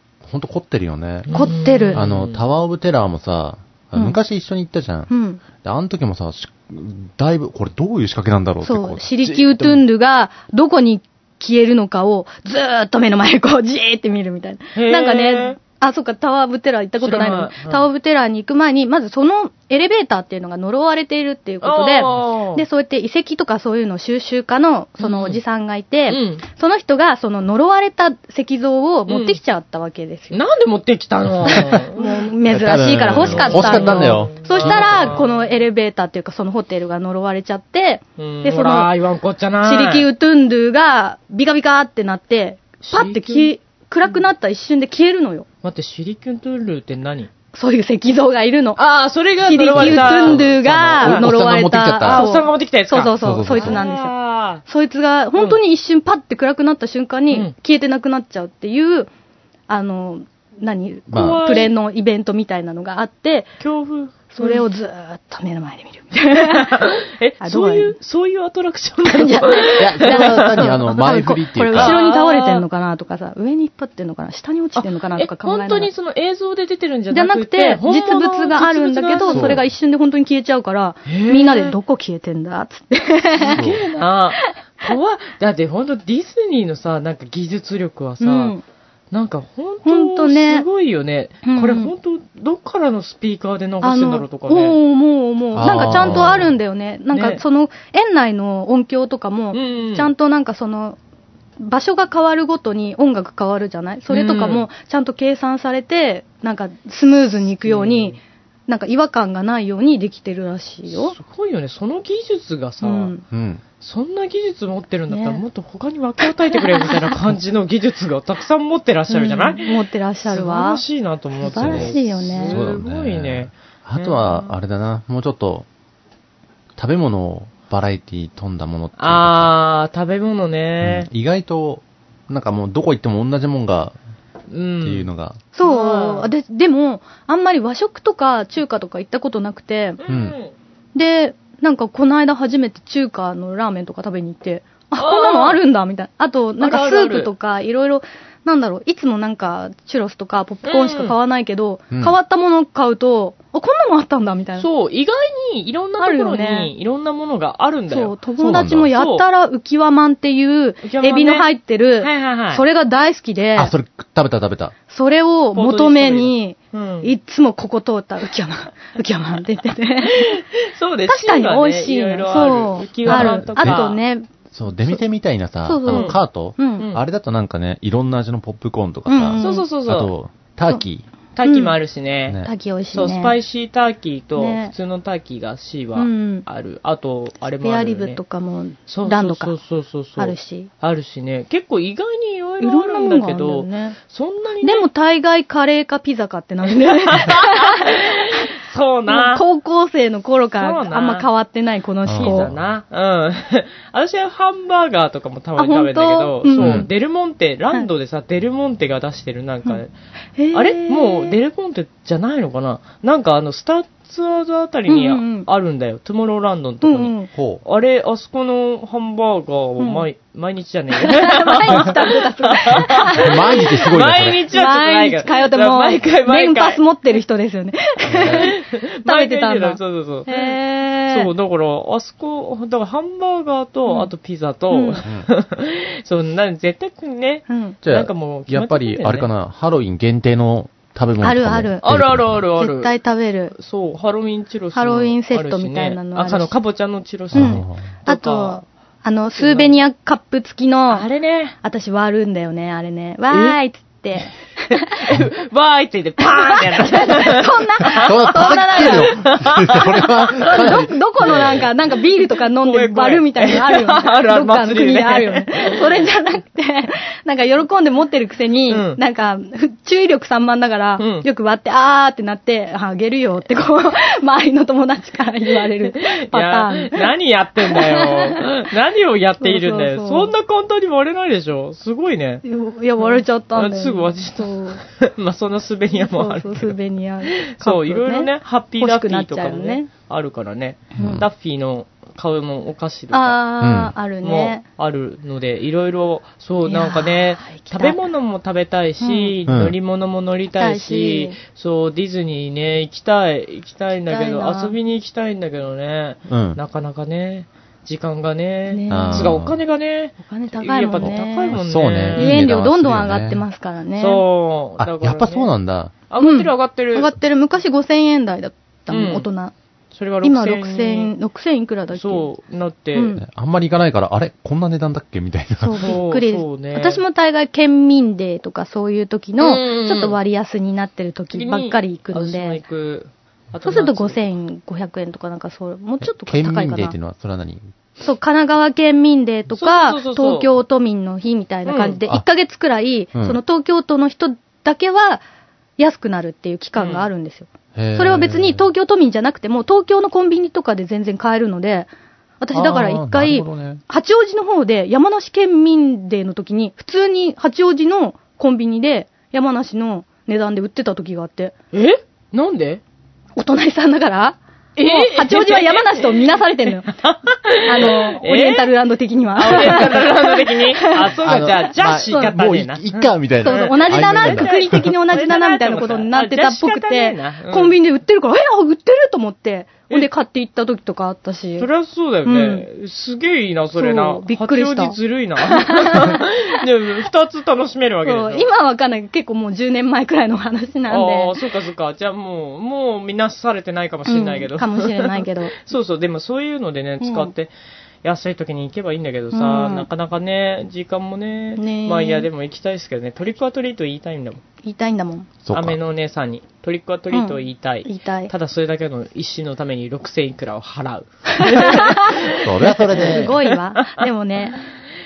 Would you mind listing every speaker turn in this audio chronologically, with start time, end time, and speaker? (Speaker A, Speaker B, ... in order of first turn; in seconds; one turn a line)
Speaker A: 0.2-9.8
Speaker B: 1.3-2.4
Speaker C: 1.3-2.0
Speaker C: 5.1-5.4
Speaker C: 8.6-30.4
Speaker B: 14.8-15.6
Speaker B: 17.0-17.8
Speaker B: 21.6-22.6
Speaker B: 25.0-25.4
Speaker B: 26.1-26.4
Speaker B: 29.1-29.4
Speaker B: 30.3-32.1
Speaker A: 31.5-31.8
Speaker C: 31.9-38.9
Speaker A: 32.5-35.2
Speaker B: 32.9-35.4
Speaker B: 38.2-40.1
Speaker C: 39.6-45.5
Speaker B: 42.8-43.5
Speaker B: 45.6-47.3
Speaker C: 47.5-48.8
Speaker B: 48.8-51.3
Speaker C: 49.4-54.1
Speaker A: 49.7-52.2
Speaker B: 52.0-54.6
Speaker A: 53.2-53.8
Speaker C: 54.6-59.1
Speaker C: 59.7-63.5
Speaker A: 61.1-61.4
Speaker B: 61.1-61.7
Speaker B: 63.6-64.6
Speaker C: 64.3-66.8
Speaker B: 66.5-70.6
Speaker C: 67.4-68.0
Speaker C: 69.0-75.9
Speaker A: 69.8-72.0
Speaker B: 71.7-72.6
Speaker B: 74.8-79.6
Speaker C: 77.1-83.6
Speaker A: 79.3-79.6
Speaker B: 81.0-81.7
Speaker B: 83.4-88.5
Speaker A: 83.5-83.8
Speaker C: 84.4-84.9
Speaker C: 88.2-88.6
Speaker B: 89.1-94.8
Speaker C: 89.9-90.7
Speaker C: 91.4-91.9
Speaker C: 93.8-101.0
Speaker A: 95.5-96.5
Speaker B: 95.6-96.4
Speaker B: 97.1-97.4
Speaker B: 99.5-100.1
Speaker C: 101.6-111.1
Speaker B: 104.1-104.7
Speaker B: 107.6-108.2
Speaker B: 110.9-113.1
Speaker C: 112.8-113.2
Speaker A: 113.3-113.6
Speaker B: 113.8-124.5
Speaker C: 115.1-115.4
Speaker C: 116.8-117.1
Speaker C: 119.1-120.8
Speaker C: 121.4-122.6
Speaker A: 121.5-125.7
Speaker A: 126.8-129.5
Speaker B: 129.0-131.1
Speaker A: 130.8-133.9
Speaker B: 134.5-135.1
Speaker A: 134.8-135.4
Speaker C: 135.5-140.0
Speaker B: 135.6-136.3
Speaker B: 140.0-140.5
Speaker A: 140.1-140.4
Speaker C: 140.9-154.7
Speaker B: 145.0-145.6
Speaker B: 146.6-147.3
Speaker B: 150.6-151.2
Speaker B: 154.6-158.2
Speaker C: 156.0-156.7
Speaker C: 157.9-163.7
Speaker A: 158.4-158.9
Speaker B: 158.9-159.2
Speaker B: 160.8-161.5
Speaker B: 162.0-162.6
Speaker A: 163.6-164.7
Speaker C: 164.9-170.3
Speaker B: 165.5-167.1
Speaker B: 170.0-174.0
Speaker C: 171.1-174.3
Speaker A: 173.0-173.8
Speaker A: 174.5-181.1
Speaker C: 175.6-176.9
Speaker B: 175.9-176.2
Speaker C: 179.1-179.7
Speaker B: 179.4-180.1
Speaker B: 181.3-182.4
Speaker C: 181.4-181.7
Speaker C: 182.4-183.3
Speaker B: 182.9-188.2
Speaker C: 184.4-184.7
Speaker C: 185.9-186.4
Speaker C: 187.6-189.5
Speaker B: 188.9-194.9
Speaker C: 190.2-190.7
Speaker C: 192.6-194.0
Speaker C: 194.6-198.4
Speaker B: 196.7-199.4
Speaker C: 199.1-202.5
Speaker B: 200.6-201.3
Speaker A: 202.0-202.7
Speaker B: 202.2-209.9
Speaker C: 205.6-206.9
Speaker A: 206.6-206.9
Speaker C: 210.4-211.3
Speaker B: 210.5-226.9
Speaker C: 214.9-215.5
Speaker C: 216.8-217.3
Speaker A: 217.3-217.6
Speaker C: 219.8-220.0
Speaker C: 221.0-223.6
Speaker A: 223.0-224.4
Speaker C: 224.5-231.3
Speaker A: 228.1-228.5
Speaker B: 228.2-230.5
Speaker B: 231.1-239.3
Speaker C: 234.7-235.0
Speaker C: 237.5-237.8
Speaker A: 237.8-242.4
Speaker C: 241.2-243.5
Speaker B: 241.8-242.9
Speaker B: 243.5-248.6
Speaker C: 244.7-246.5
Speaker A: 247.3-247.8
Speaker C: 247.3-251.1
Speaker B: 249.4-249.8
Speaker B: 250.9-251.5
Speaker C: 251.6-254.9
Speaker B: 253.3-253.6
Speaker B: 254.7-259.8
Speaker C: 256.2-259.2
Speaker A: 257.9-261.6
Speaker C: 259.7-277.0
Speaker B: 260.4-260.7
Speaker B: 261.2-261.7
Speaker B: 262.2-266.1
Speaker B: 268.7-269.0
Speaker B: 271.0-271.2
Speaker B: 275.8-282.4
Speaker C: 277.7-278.4
Speaker C: 279.4-280.3
Speaker C: 282.4-284.8
Speaker B: 283.0-293.4
Speaker C: 285.9-289.9
Speaker A: 291.0-291.2
Speaker C: 293.1-294.6
Speaker A: 293.6-293.9
Speaker B: 294.2-312.5
Speaker C: 296.6-298.0
Speaker C: 299.0-299.3
Speaker A: 299.4-299.8
Speaker C: 300.6-301.4
Speaker C: 304.1-304.7
Speaker A: 306.3-306.6
Speaker C: 308.7-309.3
Speaker A: 308.9-309.6
Speaker C: 310.2-311.6
Speaker A: 311.0-313.4
Speaker C: 312.1-314.2
Speaker B: 314.0-315.5
Speaker A: 314.8-315.9
Speaker B: 316.1-317.1
Speaker C: 316.2-319.5
Speaker B: 318.9-319.2
Speaker B: 319.9-321.1
Speaker C: 320.2-322.3
Speaker B: 321.9-323.1
Speaker C: 322.9-323.2
Speaker A: 323.2-326.0
Speaker C: 325.6-332.6
Speaker B: 325.8-327.0
Speaker B: 329.4-330.2
Speaker B: 331.3-334.2
Speaker C: 333.6-336.9
Speaker A: 336.0-337.6
Speaker C: 338.0-345.2
Speaker B: 339.5-340.5
Speaker B: 341.6-342.0
Speaker C: 345.8-351.9
Speaker B: 346.8-347.1
Speaker A: 347.7-348.6
Speaker C: 352.4-361.5
Speaker A: 352.5-353.8
Speaker B: 361.7-362.8
Speaker C: 363.4-366.9
Speaker B: 364.8-368.8
Speaker C: 367.6-371.0
Speaker B: 369.4-377.8
Speaker A: 371.2-374.8
Speaker C: 372.1-372.3
Speaker C: 373.4-381.7
Speaker B: 381.6-388.5
Speaker C: 382.2-382.6
Speaker C: 383.7-384.9
Speaker C: 385.5-386.3
Speaker C: 388.0-391.3
Speaker B: 390.9-397.5
Speaker C: 394.1-395.5
Speaker C: 397.0-397.3
Speaker B: 398.0-404.4
Speaker C: 399.3-399.9
Speaker C: 401.6-402.3
Speaker C: 404.6-405.3
Speaker A: 405.4-405.8
Speaker B: 405.5-414.1
Speaker C: 407.1-408.3
Speaker C: 411.4-412.1
Speaker A: 412.3-413.3
Speaker C: 412.9-414.6